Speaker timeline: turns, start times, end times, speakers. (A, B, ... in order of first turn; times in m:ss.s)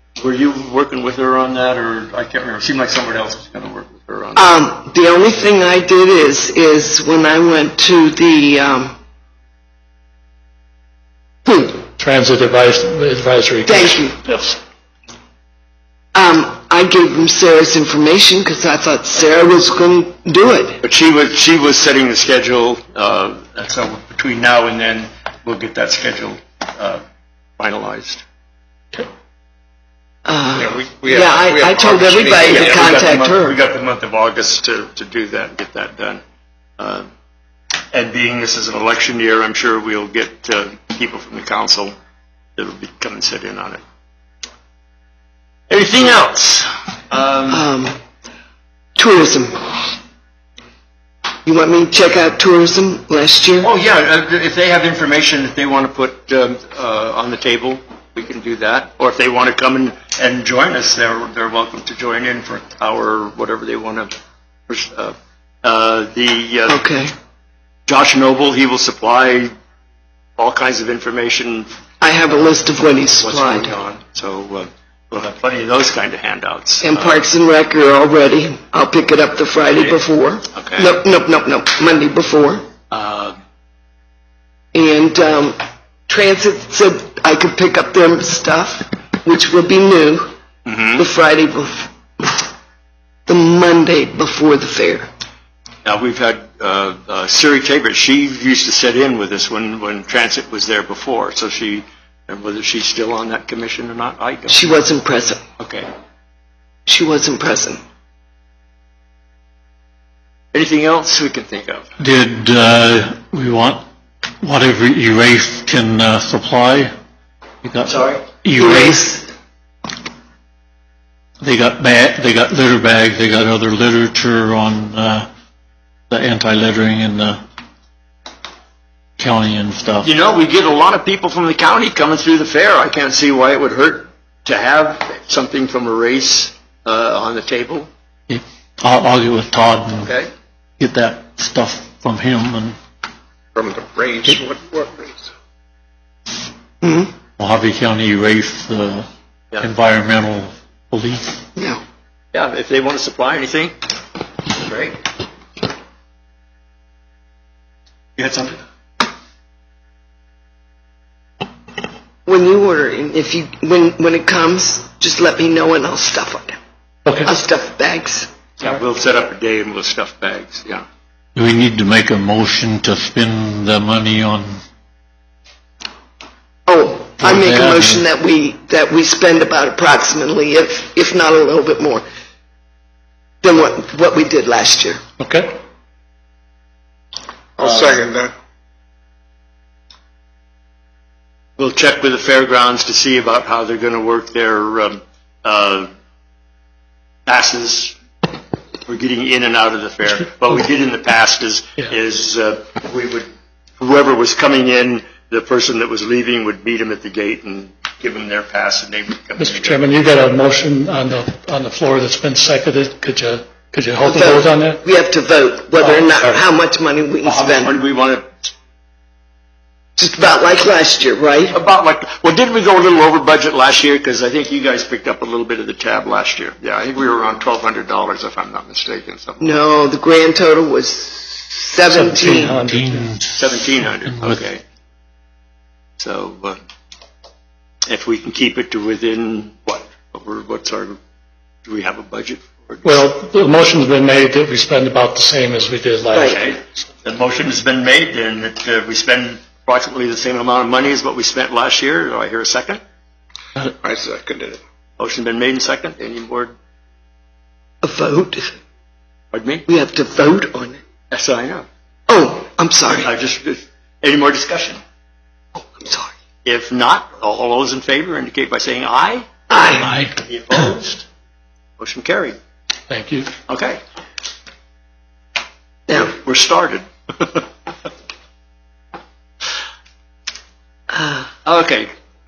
0:00.2-0:04.4 A
0:04.4-0:08.9 B
0:11.4-0:11.8 B
0:12.0-0:14.6 C
0:13.6-0:14.2 B
0:16.1-0:20.8 B
0:20.8-0:27.0 A
0:27.6-0:28.2 A
0:30.2-0:33.5 B
0:30.6-0:33.0 D
0:32.5-0:36.2 A
0:36.8-0:37.0 A
0:37.9-0:41.9 A
0:42.6-0:43.8 A
0:45.7-0:47.6 A
0:47.5-0:48.0 B
0:49.0-0:49.9 B
0:51.4-0:53.7 B
0:53.6-1:04.1 A
1:04.7-1:06.8 A
1:06.7-1:07.1 B
1:07.9-1:09.5 A
1:10.4-1:11.7 A
1:12.0-1:13.7 B
1:13.2-1:17.2 A
1:16.8-1:22.6 B
1:20.5-1:21.0 A
1:22.9-1:23.3 A
1:24.7-1:25.6 B
1:26.1-1:30.3 B
1:30.6-1:31.0 A
1:31.0-1:32.4 B
1:33.3-1:35.1 B
1:35.8-1:44.7 A
1:44.5-1:45.4 B
1:45.6-1:45.9 A
1:46.9-1:47.8 B
1:50.5-1:51.9 A
1:52.0-1:53.8 E
1:54.4-1:56.9 E
1:57.6-1:57.9 E
1:57.8-1:58.2 A
1:58.4-1:59.0 E
1:58.5-1:59.3 B
2:01.4-2:05.3 E
2:06.1-2:07.4 E
2:09.2-2:10.1 E
2:10.0-2:17.9 A
2:18.3-2:20.1 E
2:20.0-2:20.3 A
2:20.8-2:22.8 E
2:23.5-2:25.3 D
2:26.8-2:27.1 B
2:27.4-2:29.0 E
2:29.6-2:31.4 E
2:31.6-2:31.8 B
2:32.3-2:33.8 A
2:34.5-2:35.0 A
2:38.2-2:38.6 A
2:42.2-2:46.6 B
2:47.0-2:47.3 C
2:47.2-2:48.3 B
2:48.6-2:50.8 A
2:51.3-2:54.5 E
2:56.7-3:02.0 B
2:57.2-2:58.0 E
3:03.4-3:05.0 B
3:05.2-3:05.6 C
3:07.6-3:08.3 D
3:07.6-3:07.9 A
3:11.6-3:15.9 A
3:17.2-3:18.0 A
3:18.9-3:23.3 A
3:23.8-3:29.8 A
3:29.4-3:34.8 C
3:34.0-3:37.8 B
3:35.8-3:36.4 C
3:37.2-3:38.3 A
3:40.0-3:41.6 B
3:41.5-3:49.6 A
3:49.4-3:52.6 B
3:51.9-3:53.1 C
3:52.2-3:53.3 E
3:53.3-3:54.6 A
3:54.0-3:54.4 E
3:56.0-3:56.6 A
3:57.9-4:01.0 A
4:01.6-4:02.9 A
4:02.8-4:06.6 C
4:06.2-4:12.8 A
4:13.8-4:14.6 D
4:15.0-4:16.5 A
4:17.8-4:18.5 B
4:19.3-4:19.6 A
4:19.7-4:20.8 B
4:21.1-4:21.7 A
4:22.1-4:23.1 B
4:22.9-4:24.8 A
4:25.5-4:26.1 B
4:26.4-4:31.0 A
4:29.5-4:29.9 B
4:29.8-4:30.1 C
4:31.8-4:32.3 A
4:32.9-4:33.3 C
4:33.5-4:33.8 A
4:35.9-4:37.4 A
4:41.0-4:41.2 B
4:41.4-4:41.9 A